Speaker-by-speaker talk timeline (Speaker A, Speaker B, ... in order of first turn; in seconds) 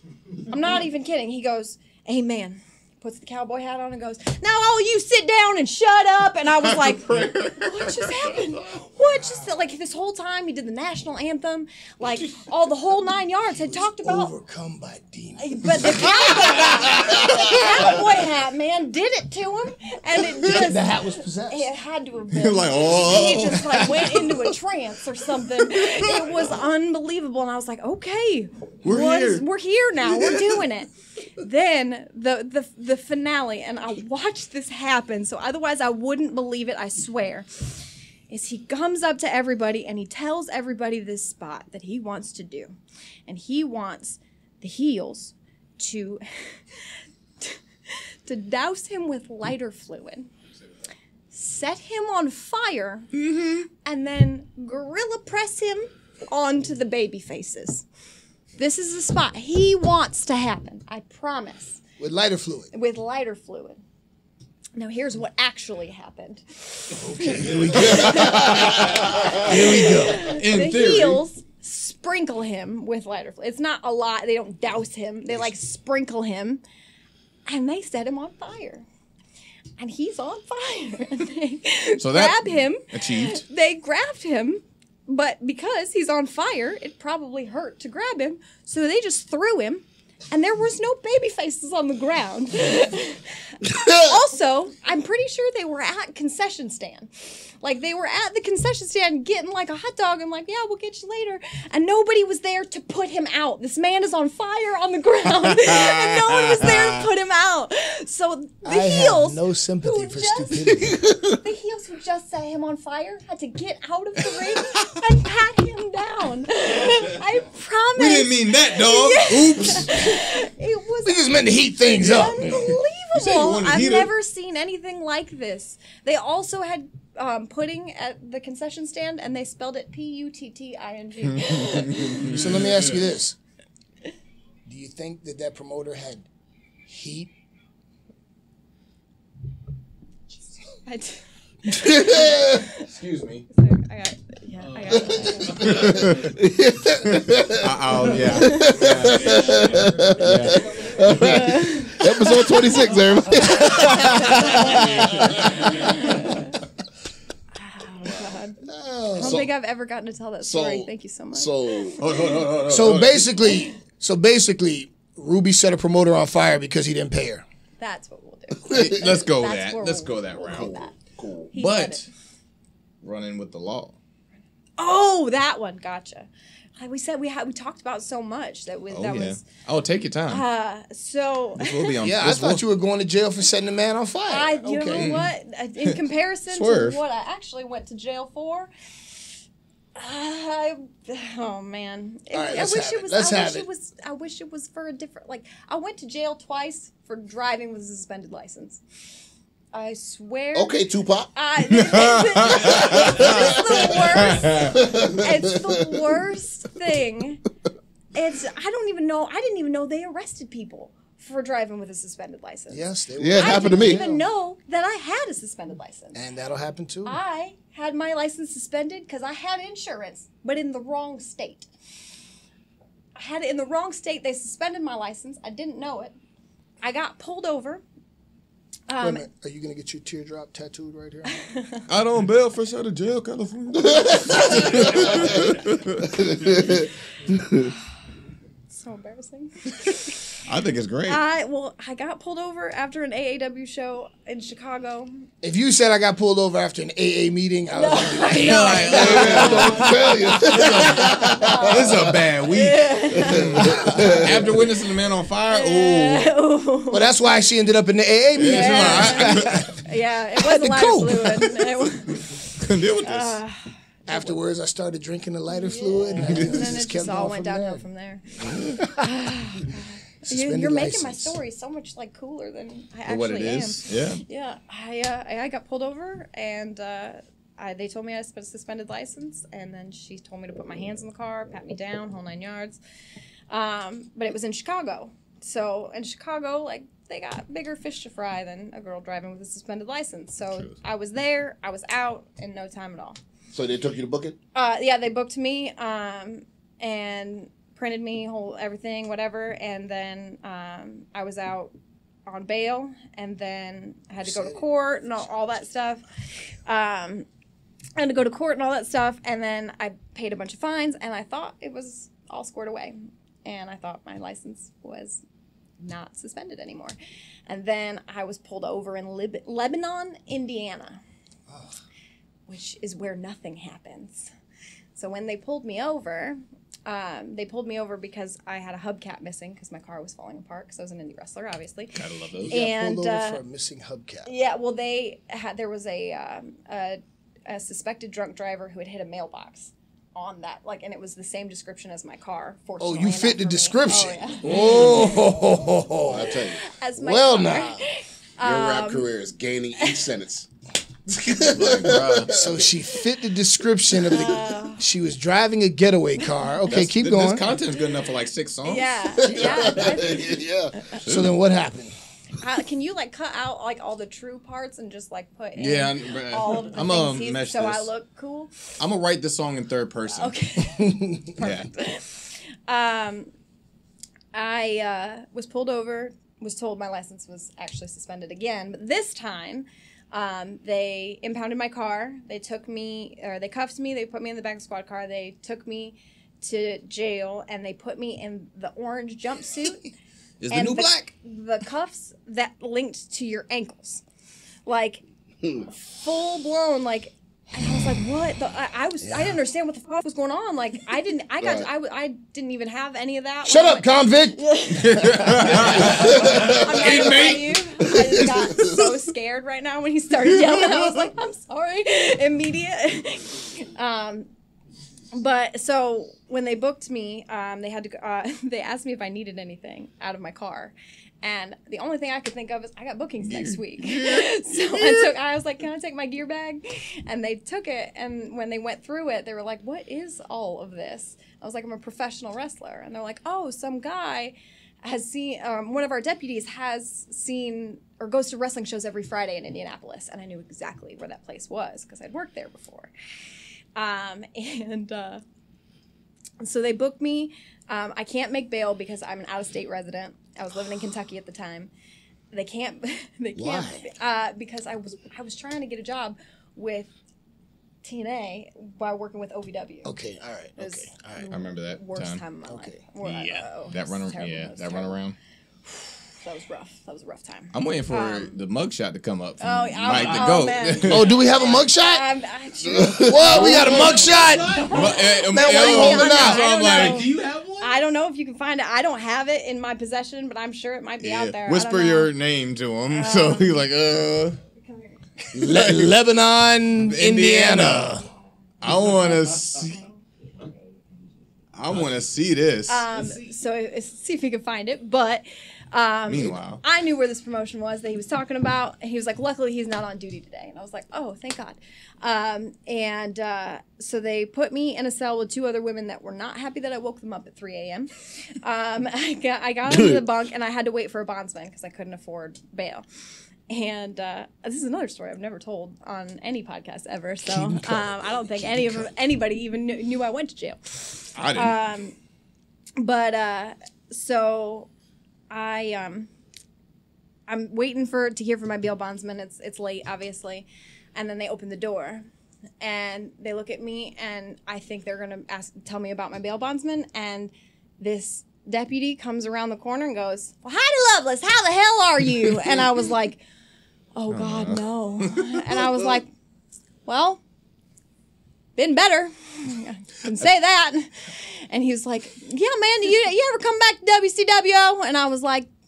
Speaker A: 0.4-14.3, 15.4-42.8, 43.3-50.3, 51.3-53.1, 53.8-57.8, 58.5-61.8, 62.7-63.8, 64.8-76.6, 77.5-78.8, 79.8-121.2, 121.9-132.3, 140.8-142.9, 143.5-145.9, 148.4-148.8, 151.1-152.6, 153.7-154.8, 155.8-156.5, 157.5-158.6, 159.2-161.9, 167.8-170.9, 171.5-172.1, 174.8-179.4, 180.3-182.0, 184.3-189.2, 189.9-198.8, 199.7-200.8, 201.3-207.4, 208.1-216.2, 217.0-221.7, 223.2-226.2, 226.8-227.8, 228.9-229.2, 231.4-231.8, 238.7-240.2, 241.1-245.1, 247.7-250.0, 251.2-253.4, 255.5-257.1, 258.4-264.4, 265.5-282.8, 283.5-293.2, 294.5-301.7, 302.2-307.3, 308.0-315.2, 315.8-316.9, 317.5-321.0, 322.5-324.3, 324.9-333.4, 334.2-345.1, 346.1-349.1, 349.8-350.1, 354.1-354.8, 358.6-361.0, 362.4-368.8, 370.1-373.3, 374.3-389.9, 390.5-394.0, 394.6-395.0, 395.7-414.3, 415.1-442.9, 443.8-445.2, 446.4-451.7, 452.3-456.9, 457.8-459.9, 460.6-465.0, 466.2-468.4, 469.4-482.1, 482.9-483.7, 484.6-484.9, 488.6-490.6, 492.7-512.8, 513.5-522.0, 522.8-524.7, 525.3-526.1, 527.3-532.0, 532.6-543.2, 543.9-546.1, 546.9-547.2, 548.5-555.5
Speaker B: 6.8-8.3, 17.0-17.5, 22.3-24.4, 25.8-26.1, 28.8-29.4, 53.1-53.7, 67.7-69.6, 70.1-71.2, 82.0-83.4, 118.0-120.0, 123.1-124.1, 131.3-133.0, 142.1-143.4, 144.6-146.4, 147.0-151.3, 154.6-155.9, 162.0-163.3, 168.7-170.8, 171.6-172.1, 173.0-173.9, 178.9-180.4, 181.6-182.7, 184.9-185.3, 186.5-187.0, 201.8-203.5, 204.2-204.7, 231.9-236.6, 239.8-241.2, 248.3-256.3, 258.4-259.7, 262.5-263.4, 266.2-266.7, 268.4-268.8, 273.1-274.2, 290.5-290.7, 331.9-332.5, 344.5-345.1, 351.4-352.4, 356.7-359.7, 361.1-361.3, 365.6-367.9, 368.8-370.3, 371.4-371.7, 390.4-391.1, 404.8-407.5, 410.2-411.1, 423.2-425.1, 461.3-462.2, 463.5-465.1, 467.5-471.3, 473.2-477.7, 481.0-484.4, 485.2-485.9, 486.8-487.9, 488.6-489.8, 491.5-492.9, 496.1-496.6, 521.1-521.6, 544.1-546.0
Speaker C: 13.5-17.9, 20.4-21.7, 22.8-23.8, 62.0-62.7, 67.0-70.3, 108.6-111.2, 121.0-122.7, 132.1-133.3, 134.7-136.2, 136.9-137.3, 158.7-159.4, 162.7-167.4, 182.0-185.2, 192.3-193.7, 212.7-214.2, 216.1-217.2, 229.0-231.5, 245.4-251.6, 253.3-254.3, 256.9-259.8, 260.4-261.9, 264.1-267.8, 268.8-269.0, 270.2-271.4, 304.2-304.6, 321.5-321.8, 332.4-334.3, 342.8-347.8, 352.3-357.5, 361.0-361.9, 370.7-371.3, 399.1-399.4, 403.4-407.9, 453.4-453.8, 459.8-461.3, 462.4-463.4, 469.9-472.0, 472.8-477.1, 485.3-488.1, 517.2-518.9
Speaker D: 68.1-68.8, 145.6-147.7, 148.2-155.7, 159.1-159.5, 160.4-162.1, 170.5-171.5, 200.5-201.3, 202.5-205.8, 213.2-214.0, 234.1-235.1, 236.2-237.7, 249.0-252.1, 253.2-254.6, 293.5-294.4, 346.1-346.6, 348.4-350.5, 351.1-352.7, 359.2-360.8, 401.4-401.7, 472.7-473.3, 509.7-510.0